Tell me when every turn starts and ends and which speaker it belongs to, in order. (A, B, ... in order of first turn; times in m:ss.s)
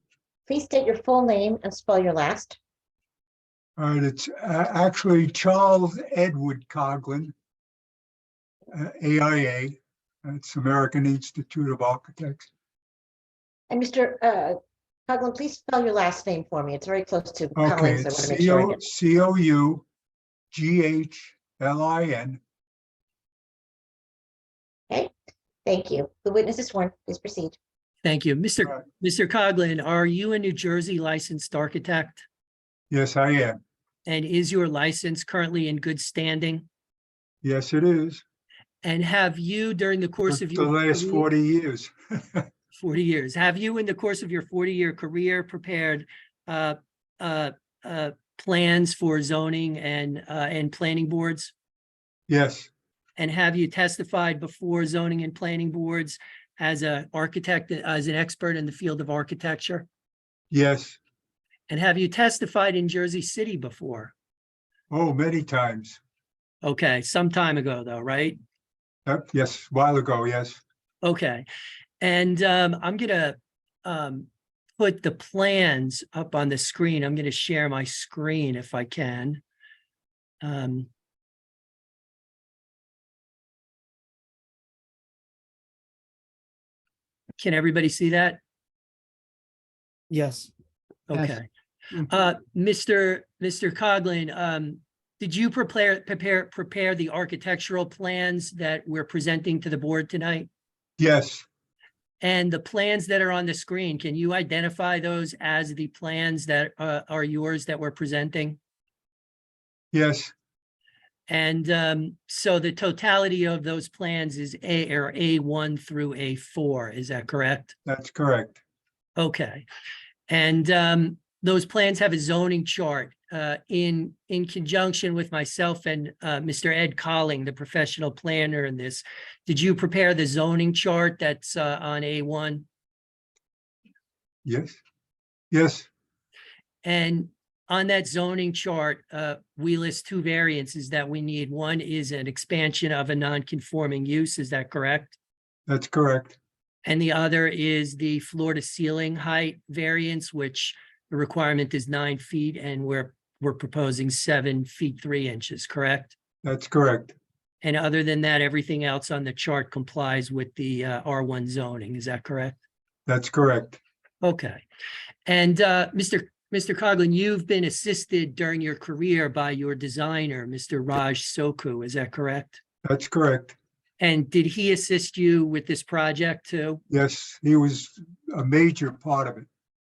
0:00.5-0:02.6 A
0:03.8-0:07.3 B
0:08.7-0:12.5 B
0:13.7-0:14.6 A
0:15.1-0:18.8 A
0:17.6-0:19.8 B
0:20.5-0:22.4 B
0:25.6-0:27.6 A
0:28.0-0:32.2 C
0:32.9-0:33.6 B
0:34.1-0:36.7 C
0:37.4-0:38.2 B
0:38.8-0:41.3 C
0:40.3-0:42.5 B
0:42.8-0:51.5 C
0:52.3-0:52.7 B
0:53.2-0:59.9 C
1:00.5-1:01.0 B
1:01.7-1:04.1 C
1:04.9-1:06.0 B
1:06.6-1:08.4 C
1:09.1-1:10.6 B
1:11.0-1:11.5 C
1:12.0-1:19.4 C
1:20.4-1:20.9 C
1:27.4-1:28.4 C
1:30.1-1:30.5 C
1:31.1-1:40.5 C
1:41.0-1:41.4 B
1:42.2-1:48.6 C
1:49.9-1:50.3 B
1:51.3-1:57.8 C
1:57.9-1:58.6 B
1:59.2-1:59.7 C
2:00.3-2:12.6 C
2:14.4-2:14.8 B
2:15.5-2:15.9 B
2:16.8-2:25.2 C
2:25.7-2:26.4 B
2:26.8-2:36.1 C
2:36.4-2:37.2 B
2:37.6-2:42.6 C
2:43.1-2:43.8 B
2:44.2-2:44.6 C
2:45.3-2:52.6 C
2:52.8-2:53.6 B
2:54.0-2:56.8 C
2:56.9-2:59.5 B